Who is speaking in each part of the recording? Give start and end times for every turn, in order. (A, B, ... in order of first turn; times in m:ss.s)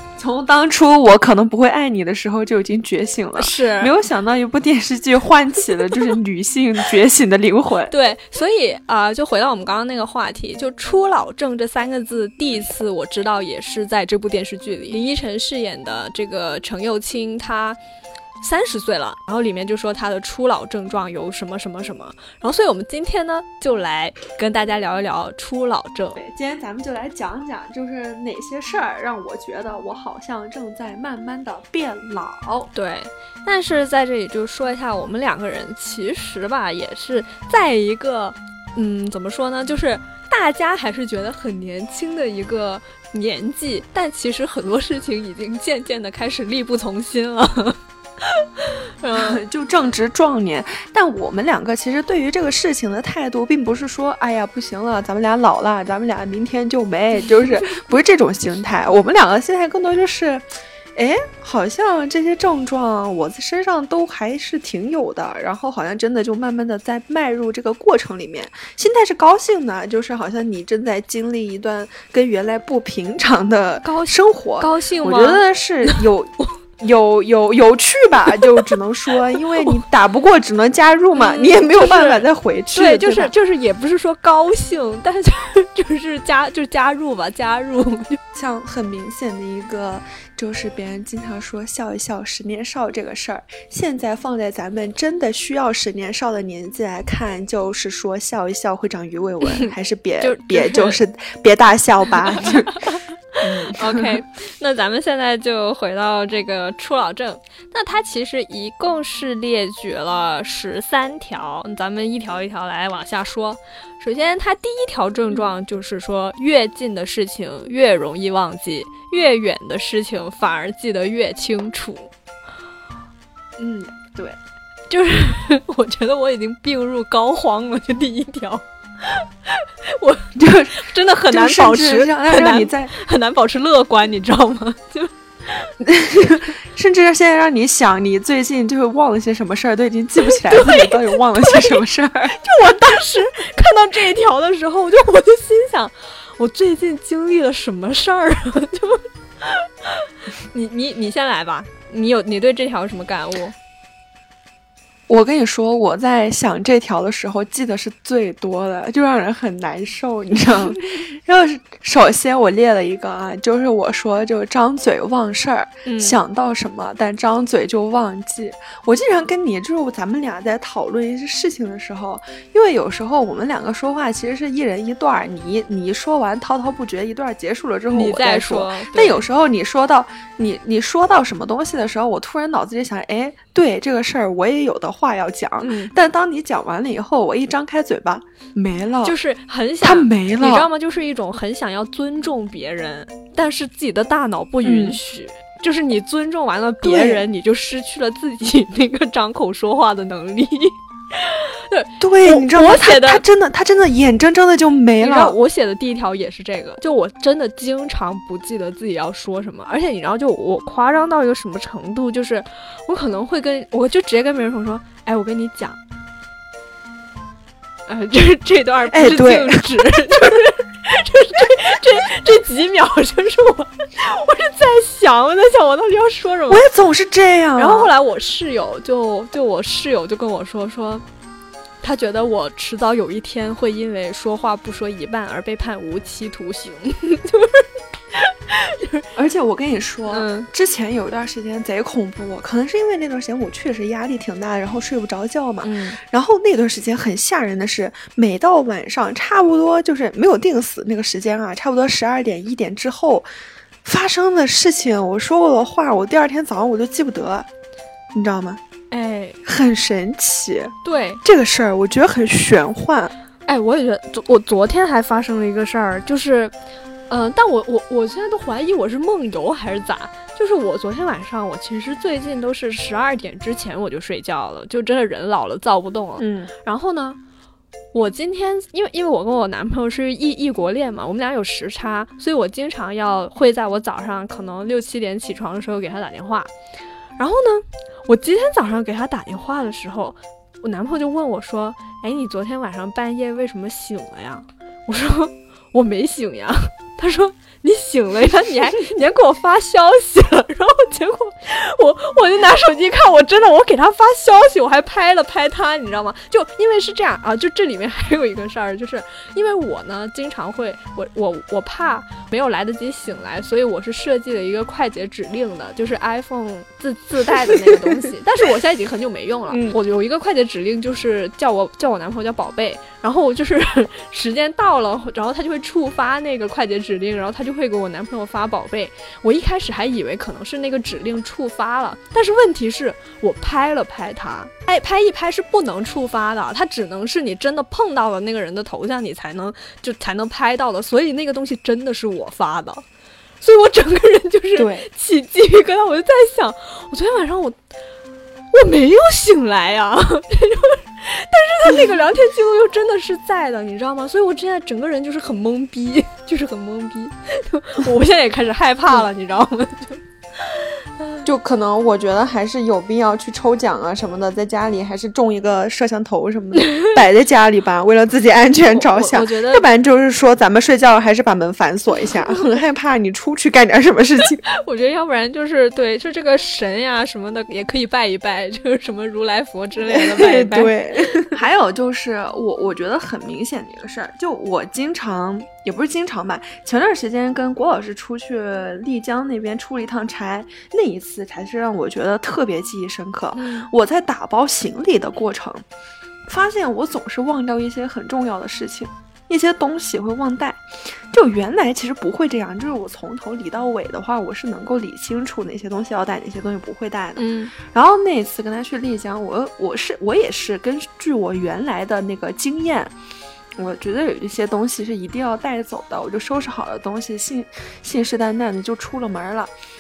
0:00.2-0:07.9 A
0:03.4-0:03.9 B
0:07.9-0:17.8 B
0:18.4-0:26.2 B
0:26.2-0:32.7 A
0:32.7-0:49.4 B
0:49.2-1:23.3 A
1:13.8-1:16.0 B
1:18.4-1:18.7 B
1:19.3-1:19.8 B
1:21.2-1:28.2 B
1:28.3-1:42.8 A
1:40.2-1:41.0 B
1:42.3-1:43.0 B
1:43.4-1:44.1 A
1:43.6-2:02.1 B
2:03.6-2:04.4 A
2:04.9-2:15.7 B
2:10.4-2:12.9 A
2:15.8-2:22.4 A
2:20.2-2:21.8 B
2:22.3-2:33.6 B
2:35.1-3:09.2 A
2:45.8-2:46.2 B
2:57.9-2:59.3 B
3:05.6-3:05.9 B
3:09.0-3:23.2 B
3:09.8-3:10.7 A
3:14.6-3:15.0 A
3:16.8-3:17.2 A
3:22.0-3:25.4 A
3:25.0-3:35.8 B
3:37.9-3:46.6 B
3:38.9-3:40.4 A
3:46.5-3:47.9 A
3:47.6-3:51.0 B
3:51.8-3:59.1 B
3:59.2-4:13.3 A
4:00.1-4:00.5 B
4:05.6-4:06.0 B
4:13.8-4:17.5 A
4:18.1-4:18.6 A
4:18.9-4:19.4 B
4:19.4-4:23.1 A
4:20.8-4:21.2 B
4:23.5-4:26.5 B
4:27.1-4:37.2 B
4:36.2-4:36.5 A
4:37.9-4:46.5 B
4:47.2-5:42.8 B
5:17.5-5:17.8 A
5:19.5-5:19.8 A
5:43.4-5:47.6 B
5:44.6-5:44.9 A
5:48.5-6:01.2 B
6:01.2-6:14.4 A
6:06.6-6:06.9 B
6:08.7-6:09.7 B
6:14.5-6:21.3 B
6:19.8-6:35.6 A
6:33.4-6:33.7 B
6:36.3-6:53.0 A
6:47.2-6:47.5 B
6:53.6-6:59.5 A